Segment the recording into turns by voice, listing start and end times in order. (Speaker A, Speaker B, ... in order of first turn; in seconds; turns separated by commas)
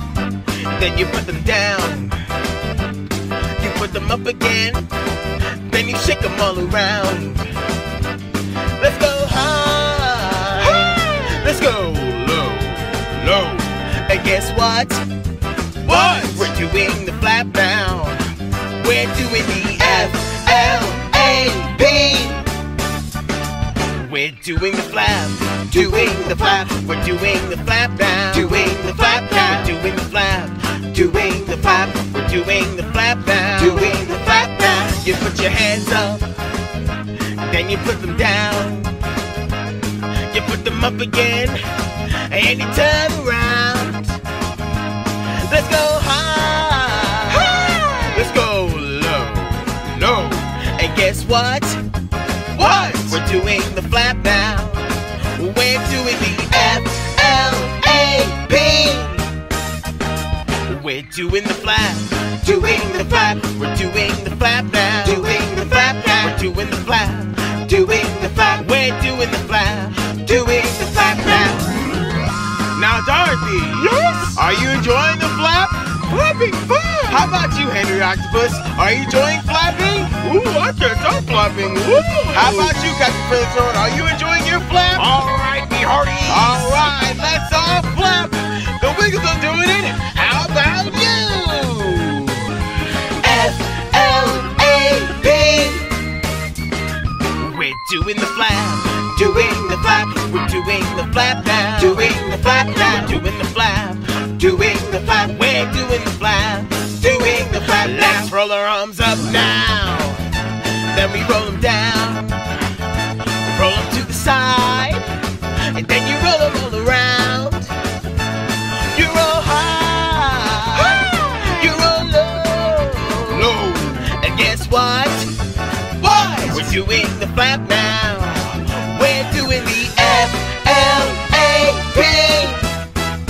Speaker A: 0.6-2.3, Speaker A: 3.5-4.9, Speaker A: 5.5-7.6, Speaker A: 8.8-15.0, Speaker A: 15.8-22.5, Speaker A: 23.9-36.3, Speaker A: 37.3-39.0, Speaker A: 40.2-44.2, Speaker A: 45.3-51.9, Speaker B: 47.5-47.9, Speaker A: 52.5-59.3, Speaker A: 60.6-71.8, Speaker A: 72.7-76.1, Speaker B: 74.0-74.3, Speaker B: 76.1-77.2, Speaker A: 77.1-95.9, Speaker B: 80.5-82.8, Speaker B: 86.3-86.9, Speaker A: 97.4-112.6, Speaker A: 113.4-117.7, Speaker A: 118.8-125.3, Speaker B: 123.4-123.8, Speaker A: 126.0-132.7